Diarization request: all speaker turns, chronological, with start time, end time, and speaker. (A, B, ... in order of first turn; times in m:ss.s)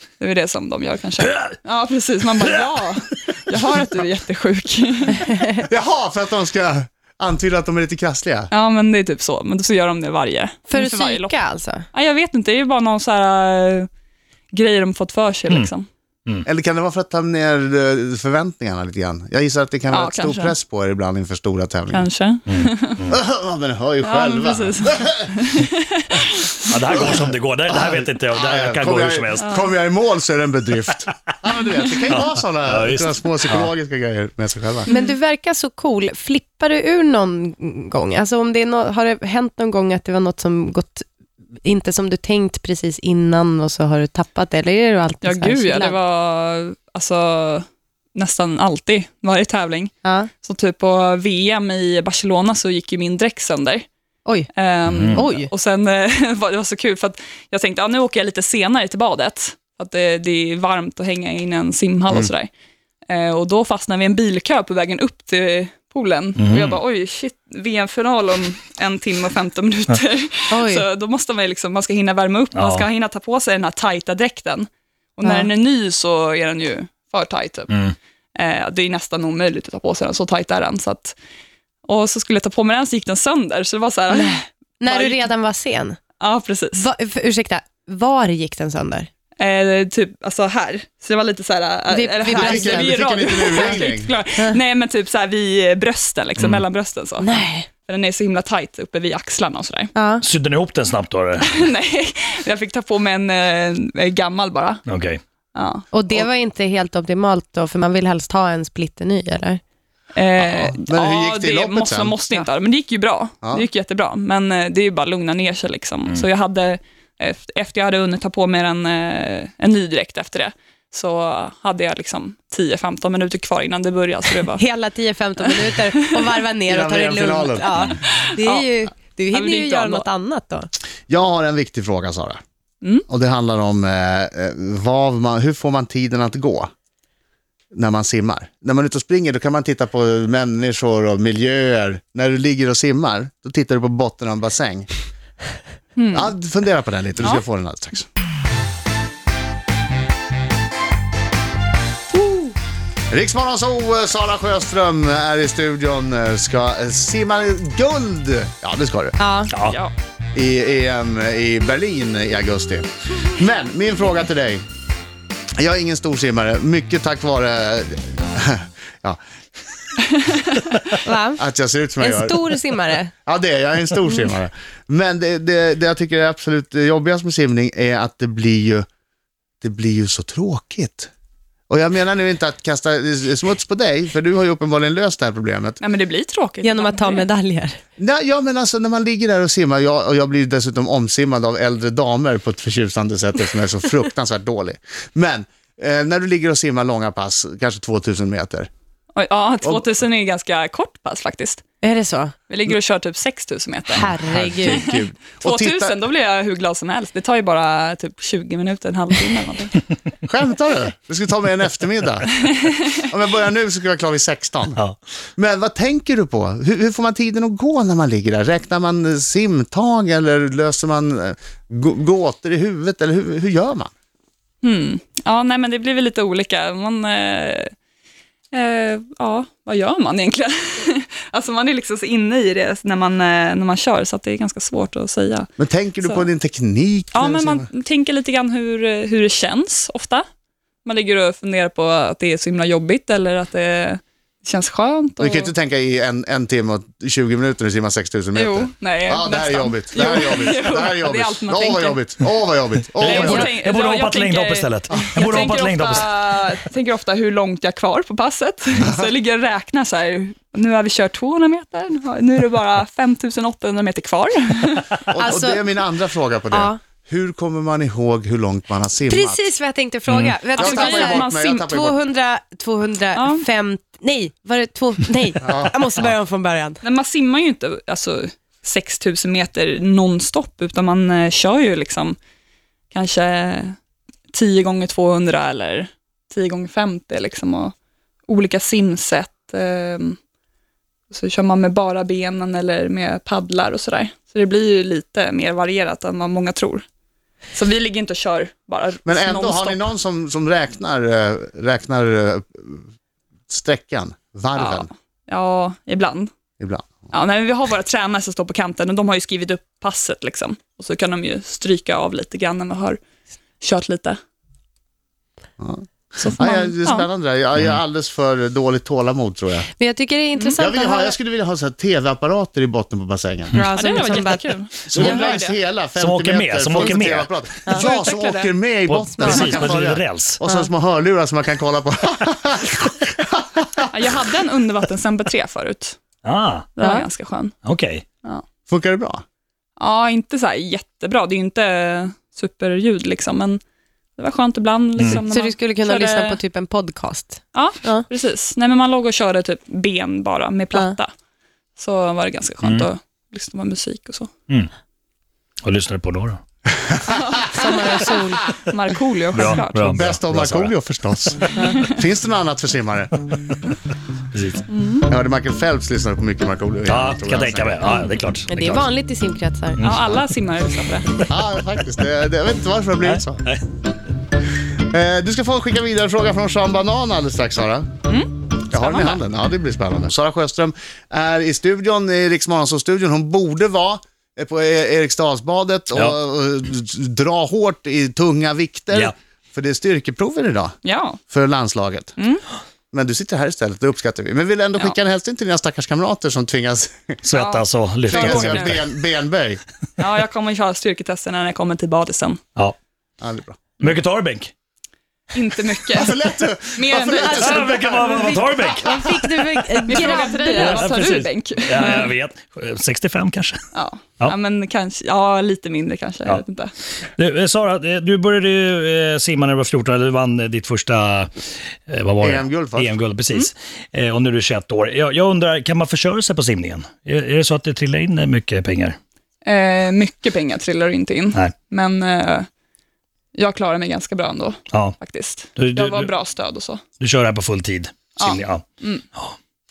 0:00.2-0:05.4 A
0:05.6-0:08.5 B
0:08.5-0:11.4 A
0:10.7-0:11.8 C
0:11.9-0:13.9 A
0:14.5-0:15.9 A
0:16.4-0:22.1 B
0:19.9-0:20.6 A
0:21.9-0:23.0 A
0:22.5-0:23.2 D
0:23.1-0:25.2 B
0:24.0-0:26.5 A
0:26.7-0:29.6 D
0:27.7-0:34.9 B
0:29.4-0:29.6 A
0:32.0-0:33.7 D
0:34.9-0:35.1 A
0:34.9-0:41.0 C
0:41.6-0:46.0 C
0:45.2-0:53.9 A
0:50.0-0:50.3 C
0:54.5-1:02.5 A
0:54.8-0:55.3 D
0:55.1-0:55.5 C
1:03.1-1:17.7 A
1:06.4-1:06.8 D
1:10.5-1:10.8 C
1:12.5-1:12.8 D
1:15.2-1:15.5 C
1:18.4-1:21.2 A
1:21.8-1:25.3 A
1:24.8-1:26.0 C
1:26.2-1:26.9 A
1:26.8-1:29.1 C
1:29.4-1:39.9 A
1:31.9-1:33.8 C
1:32.3-1:34.1 B
1:36.4-1:36.6 D
1:37.2-1:37.6 C
1:39.9-1:40.2 C
1:40.2-1:41.5 D
1:41.4-1:44.8 A
1:44.8-1:45.2 D
1:45.5-1:45.8 A
1:45.9-1:49.6 C
1:50.1-2:04.6 A
1:50.4-1:52.2 B
1:53.4-1:53.7 B
2:04.6-2:10.7 C
2:06.7-2:07.7 B
2:07.8-2:08.7 A
2:09.3-2:10.1 A
2:11.1-2:12.4 B
2:13.1-2:16.7 B
2:17.7-2:24.9 B
2:26.0-2:26.3 A
2:26.1-2:28.0 B
2:32.2-2:32.5 C
2:33.1-2:39.2 B
2:39.2-2:39.5 C
2:39.5-2:39.8 D
2:39.6-2:39.9 A
2:40.3-2:44.6 B
2:45.6-2:49.2 B
2:50.2-2:50.7 A
2:51.0-2:51.4 C
2:51.4-2:52.5 B
2:52.0-2:53.1 C
2:53.2-2:58.8 B
2:59.6-3:01.1 B
3:01.7-3:05.8 B
3:05.8-3:07.2 A
3:06.6-3:07.8 C
3:08.0-3:18.7 B
3:19.1-3:21.6 A
3:21.8-3:22.3 C
3:22.5-3:29.7 A
3:24.0-3:24.8 C
3:24.0-3:26.0 B
3:30.2-3:34.8 B
3:35.4-3:43.9 B
3:44.6-3:47.7 A
3:48.5-3:55.5 A
3:55.6-3:57.7 B
3:57.1-4:00.2 A
4:00.8-4:05.5 A
4:05.2-4:13.5 B
4:08.3-4:12.0 A
4:13.0-4:16.2 D
4:13.0-4:24.9 A
4:25.1-4:29.5 B
4:25.2-4:25.6 C
4:26.5-4:26.8 C
4:29.1-4:36.8 C
4:30.1-4:30.4 D
4:30.6-4:31.5 A
4:30.6-4:32.0 B
4:33.1-4:33.4 A
4:35.4-4:35.8 B
4:36.8-4:42.2 A
4:42.9-4:43.8 A
4:44.3-4:47.7 A
4:48.3-4:50.2 A
4:51.1-4:56.8 A
4:57.5-4:59.8 A
4:59.0-5:02.8 B
5:03.5-5:04.9 B
5:04.6-5:06.3 A
5:06.6-5:06.9 B
5:07.1-5:13.0 A
5:13.6-5:14.2 A
5:15.6-5:19.7 B
5:16.2-5:17.1 A
5:19.8-5:21.2 C
5:20.6-5:23.6 B
5:23.5-5:25.2 C
5:23.8-5:25.6 A
5:24.9-5:33.8 B
5:26.0-5:27.3 D
5:27.7-5:28.5 A
5:28.8-5:30.4 D
5:33.9-5:36.0 A
5:36.2-5:36.7 D
5:36.8-5:37.5 A
5:37.6-5:38.0 D
5:38.7-5:39.2 B
5:39.8-5:43.6 A
5:44.2-5:46.4 A
5:45.0-5:48.0 C
5:47.5-5:51.1 A
5:51.8-5:54.3 A
5:52.6-5:52.9 D
5:55.6-5:56.4 D
5:56.9-5:57.4 B
5:57.1-5:58.0 A
5:57.5-5:58.5 C
5:58.6-6:00.0 A
5:59.3-6:00.7 D
5:59.9-6:03.1 B
6:01.6-6:01.9 A
6:04.3-6:04.6 D
6:04.7-6:05.1 A
6:05.0-6:08.0 B
6:06.9-6:08.9 D
6:08.5-6:09.8 C
6:09.8-6:10.2 D
6:09.8-6:11.0 A
6:11.3-6:13.4 B
6:13.0-6:13.6 D
6:14.9-6:17.9 B
6:18.1-6:19.2 A
6:18.7-6:30.7 B
6:30.8-6:31.2 A
6:31.3-6:32.1 B
6:32.2-6:32.4 A
6:32.9-6:37.2 B
6:37.2-6:38.8 D
6:37.3-6:38.8 A
6:38.1-6:39.6 B
6:40.0-6:42.4 A
6:43.2-6:43.6 B
6:43.8-6:44.5 D
6:45.3-6:46.2 A
6:45.9-6:48.3 B
6:46.7-6:47.7 A
6:47.2-6:51.0 C
6:47.2-6:49.0 D
6:49.5-6:53.6 D
6:49.9-6:52.1 A
6:53.7-6:56.7 A
6:57.2-7:01.3 D
7:01.9-7:09.0 D
7:02.2-7:03.0 B
7:09.4-7:12.5 A
7:13.3-7:16.8 A
7:14.7-7:15.0 D
7:15.6-7:16.1 D
7:17.0-7:19.3 D
7:18.2-7:19.0 A